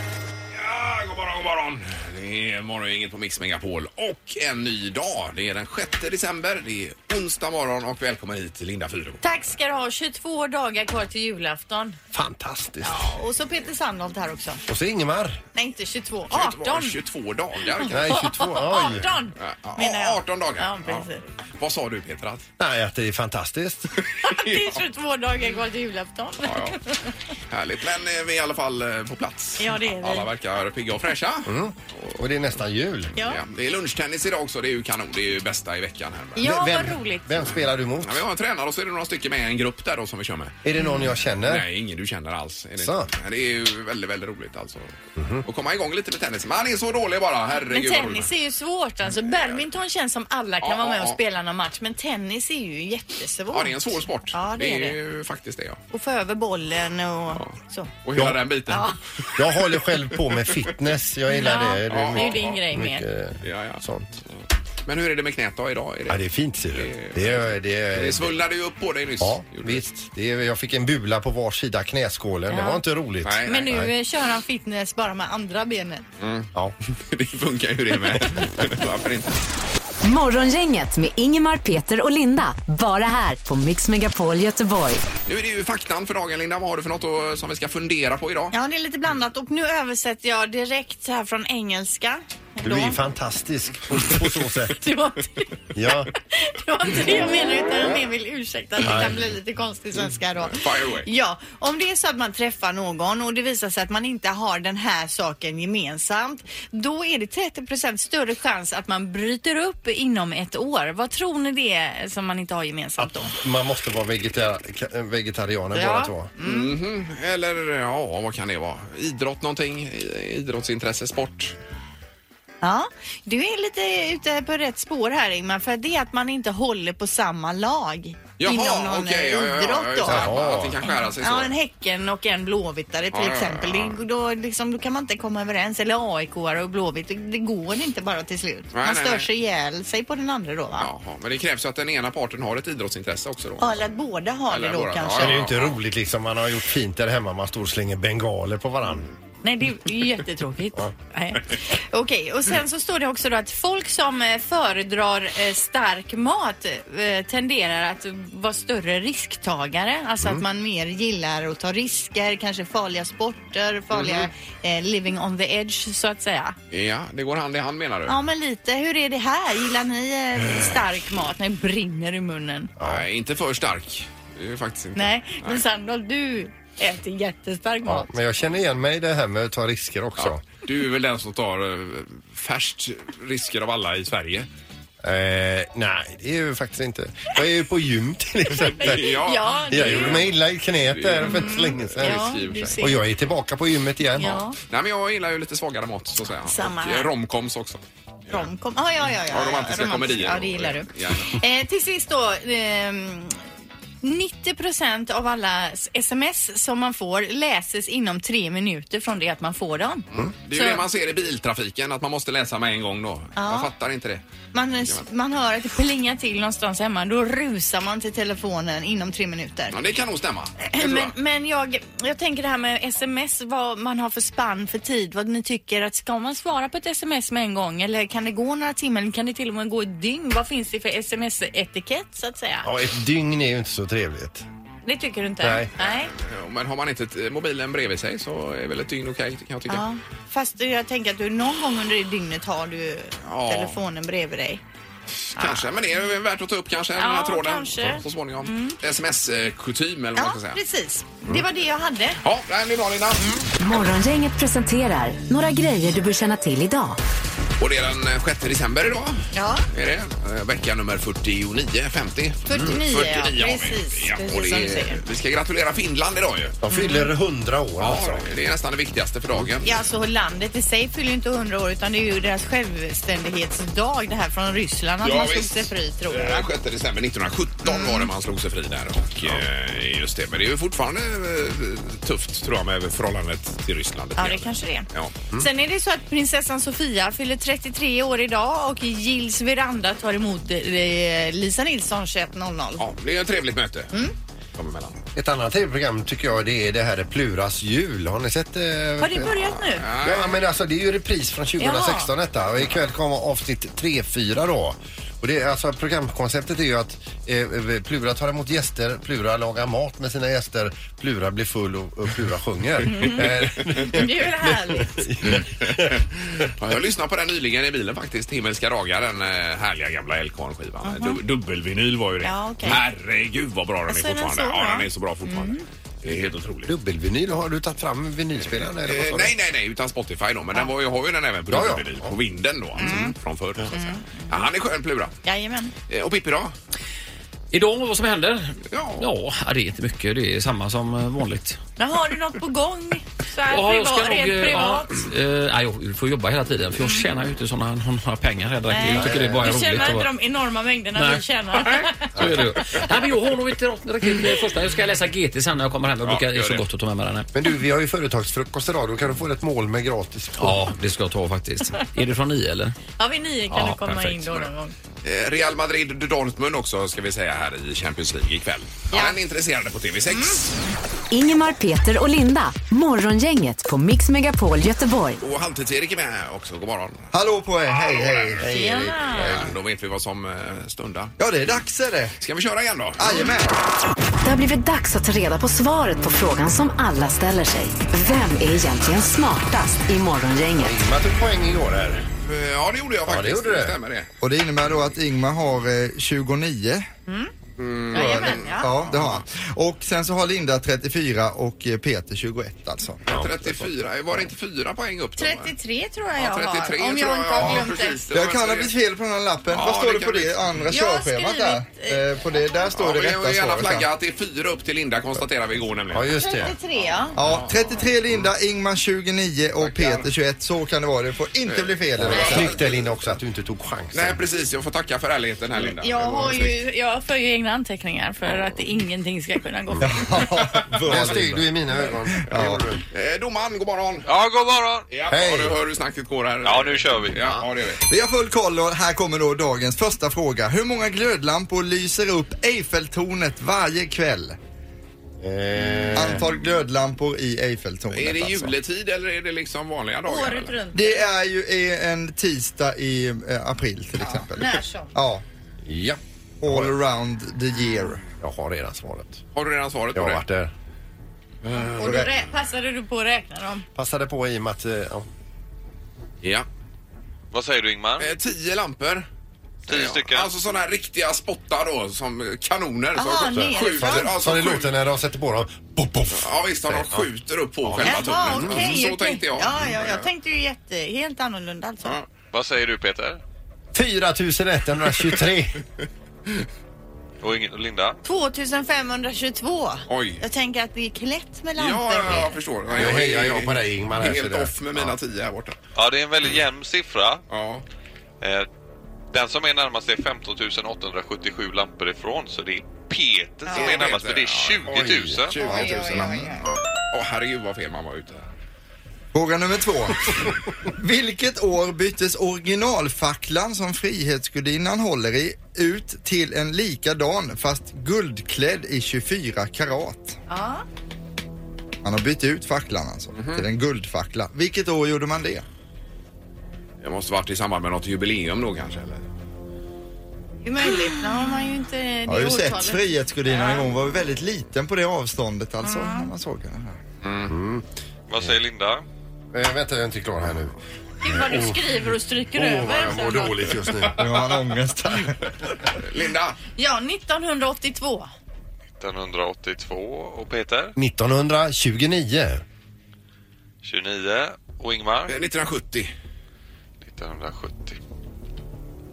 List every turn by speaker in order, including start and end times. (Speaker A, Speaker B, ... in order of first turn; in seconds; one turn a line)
Speaker A: 0.5-9.2
Speaker B: 9.2-12.0
Speaker C: 12.1-13.2
Speaker B: 12.8-14.6
Speaker C: 14.7-15.4
Speaker B: 15.5-16.9
Speaker A: 16.3-18.1
Speaker B: 17.8-21.2
Speaker C: 17.9-19.1
Speaker A: 19.4-21.1
Speaker A: 21.6-22.4
Speaker C: 22.6-23.9
Speaker A: 24.0-24.8
Speaker B: 24.2-27.1
Speaker A: 26.4-26.8
Speaker A: 27.5-32.2
Speaker B: 29.6-30.3
Speaker C: 31.4-33.1
Speaker A: 33.2-36.5
Speaker B: 36.4-37.4
Speaker C: 36.4-38.2
Speaker A: 38.0-40.5
Speaker C: 40.6-41.6
Speaker B: 40.8-41.0
Speaker A: 41.4-44.9
Speaker C: 42.8-43.1
Speaker C: 45.1-45.5
Speaker A: 45.4-48.3
Speaker B: 47.7-55.0
Speaker A: 49.1-49.6
Speaker A: 50.6-51.2
Speaker A: 53.5-55.8
Speaker B: 55.9-57.9
Speaker A: 58.0-58.9
Speaker C: 58.1-58.4
Speaker B: 58.7-59.0
Speaker C: 59.3-64.2
Speaker A: 60.1-60.7
Speaker B: 61.3-63.0
Speaker A: 61.9-62.6
Speaker A: 63.4-63.8
Speaker A: 64.8-69.8
Speaker C: 66.1-68.4
Speaker C: 69.2-73.9
Speaker B: 72.5-72.8
Speaker A: 73.2-73.7
Speaker B: 73.5-76.0
Speaker A: 76.2-79.4
Speaker D: 80.0-85.0
Speaker A: 85.2-88.5
Speaker B: 88.5-93.0
Speaker C: 92.6-94.8
Speaker B: 94.7-95.5
Speaker C: 95.7-96.1
Speaker B: 96.3-113.3
Speaker A: 98.8-99.1
Speaker C: 98.8-99.2
Speaker A: 100.4-101.1
Speaker C: 113.0-116.3
Speaker B: 115.7-116.7
Speaker A: 116.4-121.5
Speaker B: 122.6-130.2
Speaker A: 128.4-131.5
Speaker C: 130.1-130.8
Speaker B: 130.8-140.9
Speaker A: 133.1-134.0
Speaker A: 138.7-139.3
Speaker A: 140.8-143.8
Speaker B: 143.6-145.4
Speaker A: 144.5-145.8
Speaker C: 145.2-149.1
Speaker B: 149.4-166.6
Speaker A: 163.9-164.3
Speaker A: 166.7-168.2
Speaker B: 168.1-172.7
Speaker C: 172.8-173.0
Speaker A: 172.8-175.6
Speaker B: 174.9-178.1
Speaker C: 177.8-180.4
Speaker A: 180.2-184.5
Speaker C: 185.0-194.4
Speaker B: 188.6-190.3
Speaker A: 188.8-192.8
Speaker B: 191.2-193.0
Speaker B: 194.1-194.6
Speaker A: 194.7-197.8
Speaker B: 196.5-197.1
Speaker B: 198.3-203.4
Speaker A: 199.3-201.3
Speaker B: 204.0-210.8
Speaker A: 210.1-214.2
Speaker B: 213.3-213.7
Speaker B: 214.5-219.8
Speaker A: 219.7-221.1
Speaker B: 220.6-232.7
Speaker C: 232.6-234.4
Speaker B: 234.8-236.1
Speaker C: 235.4-235.7
Speaker A: 235.8-239.8
Speaker B: 239.7-244.6
Speaker A: 243.2-243.8
Speaker A: 245.3-250.6
Speaker B: 245.3-245.7
Speaker B: 247.0-248.8
Speaker B: 250.2-252.2
Speaker A: 252.2-253.4
Speaker D: 253.6-257.0
Speaker A: 257.6-266.6
Speaker B: 259.3-259.7
Speaker B: 262.4-265.0
Speaker C: 266.6-268.2
Speaker B: 266.7-267.1
Speaker A: 267.8-269.7
Speaker B: 269.6-276.5
Speaker A: 275.0-285.1
Speaker B: 277.6-278.1
Speaker B: 284.2-292.8
Speaker A: 292.8-293.9
Speaker A: 294.5-295.0
Speaker C: 295.1-315.9
Speaker B: 299.0-299.8
Speaker A: 299.8-300.4
Speaker B: 301.6-302.1
Speaker B: 312.9-315.0
Speaker A: 315.3-326.7
Speaker B: 320.8-321.2
Speaker B: 322.2-322.8
Speaker B: 323.9-325.6
Speaker C: 326.6-329.3
Speaker A: 328.6-335.1
Speaker C: 331.5-332.1
Speaker B: 332.8-333.1
Speaker B: 333.7-334.4
Speaker B: 335.2-335.7
Speaker A: 335.9-336.5
Speaker E: 337.5-341.6
Speaker A: 338.7-339.1
Speaker B: 341.8-345.1
Speaker E: 343.5-350.1
Speaker B: 346.8-347.0
Speaker B: 348.7-352.4
Speaker C: 348.9-349.7
Speaker E: 350.9-351.2
Speaker C: 352.1-352.8
Speaker E: 352.2-357.3
Speaker A: 356.0-356.6
Speaker C: 357.3-360.7
Speaker E: 360.4-362.8
Speaker B: 363.0-364.7
Speaker A: 363.6-364.5
Speaker A: 365.0-370.6
Speaker B: 368.9-369.2
Speaker B: 370.1-370.4
Speaker D: 371.1-375.2
Speaker A: 375.2-377.1
Speaker F: 377.1-378.5
Speaker B: 378.4-379.4
Speaker C: 378.5-379.2
Speaker A: 379.1-381.1
Speaker F: 381.2-382.1
Speaker A: 382.2-383.0
Speaker F: 383.0-383.6
Speaker D: 384.2-390.8
Speaker C: 390.6-392.0
Speaker A: 392.2-394.1
Speaker C: 393.1-393.8
Speaker F: 394.2-396.9
Speaker B: 397.1-397.3
Speaker A: 397.6-399.2
Speaker F: 397.9-403.2
Speaker B: 397.9-398.7
Speaker A: 403.1-405.5
Speaker C: 403.1-403.5
Speaker B: 405.2-408.0
Speaker A: 406.2-408.7
Speaker F: 408.1-413.9
Speaker A: 409.5-410.4
Speaker B: 410.7-412.6
Speaker A: 412.7-416.1
Speaker C: 415.9-416.6
Speaker B: 416.2-417.2
Speaker A: 417.2-417.5
Speaker F: 417.2-422.6
Speaker A: 419.6-420.1
Speaker A: 421.4-422.9
Speaker C: 422.0-424.2
Speaker A: 423.9-426.6
Speaker B: 425.8-430.1
Speaker C: 429.8-432.8
Speaker F: 429.8-431.5
Speaker A: 430.6-431.2
Speaker F: 432.1-432.6
Speaker A: 432.9-434.1
Speaker G: 434.1-434.9
Speaker A: 434.9-437.8
Speaker C: 435.1-435.6
Speaker G: 436.4-437.4
Speaker F: 437.9-444.4
Speaker C: 445.2-446.3
Speaker F: 445.9-448.5
Speaker A: 447.9-450.6
Speaker B: 450.1-451.0
Speaker F: 450.7-455.2
Speaker B: 454.0-454.9
Speaker C: 455.6-456.7
Speaker F: 456.4-458.0
Speaker C: 458.2-459.2
Speaker A: 459.3-460.2
Speaker C: 459.9-460.5
Speaker B: 461.8-463.6
Speaker F: 461.8-462.1
Speaker C: 463.7-465.1
Speaker A: 466.2-466.5
Speaker G: 467.3-468.1
Speaker A: 468.0-469.1
Speaker G: 469.7-470.3
Speaker A: 469.7-474.7
Speaker B: 472.9-474.1
Speaker C: 473.2-477.1
Speaker A: 476.1-480.1
Speaker C: 477.6-478.8
Speaker B: 477.8-482.0
Speaker G: 482.3-483.2
Speaker C: 483.7-485.6
Speaker G: 487.2-488.0
Speaker B: 488.0-492.4
Speaker A: 489.9-490.2
Speaker A: 491.6-495.6
Speaker C: 492.1-494.9
Speaker G: 495.8-497.2
Speaker A: 497.3-497.6
Speaker G: 498.2-498.5
Speaker G: 499.1-505.9
Speaker B: 503.5-503.9
Speaker A: 503.5-508.2
Speaker B: 505.3-506.5
Speaker F: 505.5-506.3
Speaker F: 509.1-520.2
Speaker B: 520.3-520.6
Speaker F: 521.8-525.4
Speaker A: 523.1-523.5
Speaker A: 526.8-529.0
Speaker B: 530.4-533.6
Speaker F: 532.1-536.8
Speaker B: 535.6-536.1
Speaker A: 537.0-537.3
Speaker C: 537.3-537.6
Speaker G: 538.1-538.8
Speaker C: 539.3-541.7
Speaker B: 541.0-543.3
Speaker C: 542.4-544.0
Speaker F: 543.9-545.5
Speaker A: 545.8-546.4
Speaker B: 546.6-548.1
Speaker G: 548.8-550.7
Speaker C: 550.8-552.4
Speaker G: 553.6-555.2
Speaker A: 555.1-555.9
Speaker G: 556.8-557.8